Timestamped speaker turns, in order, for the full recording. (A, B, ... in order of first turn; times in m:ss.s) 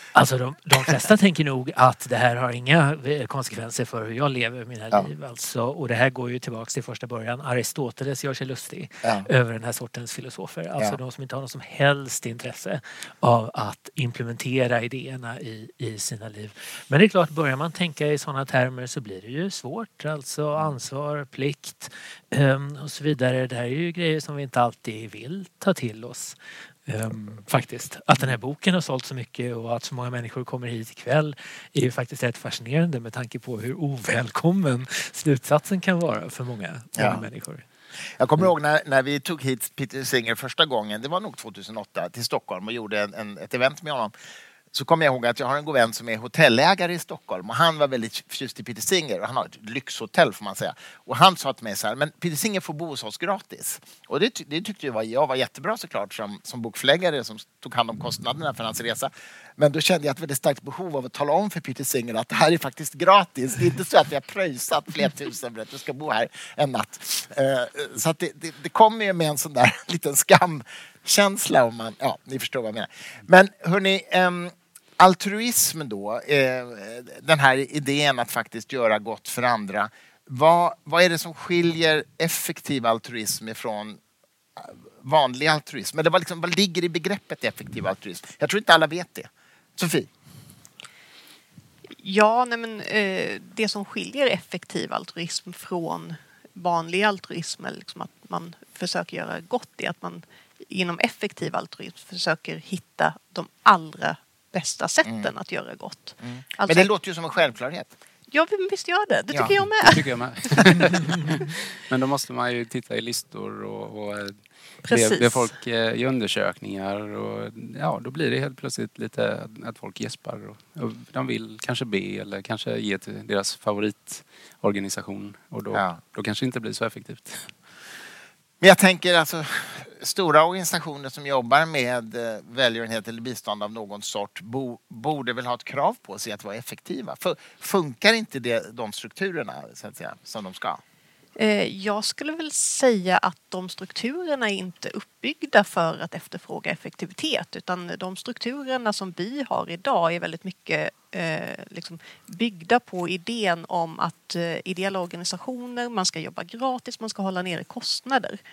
0:00.1-0:26.4 A
0:09.0-0:09.3 B
0:26.9-0:37.6 A
0:37.0-0:37.2 B
0:38.2-0:44.1 B
0:44.7-1:24.0 B
1:24.6-1:30.1 B
1:32.0-1:46.9 C
1:46.2-1:47.9 B
1:48.3-1:50.1 C
1:49.3-1:49.7 B
1:49.8-2:07.5 D
1:54.8-1:55.5 C
2:05.7-2:06.0 B
2:08.6-2:20.8 B
2:21.4-2:38.4 C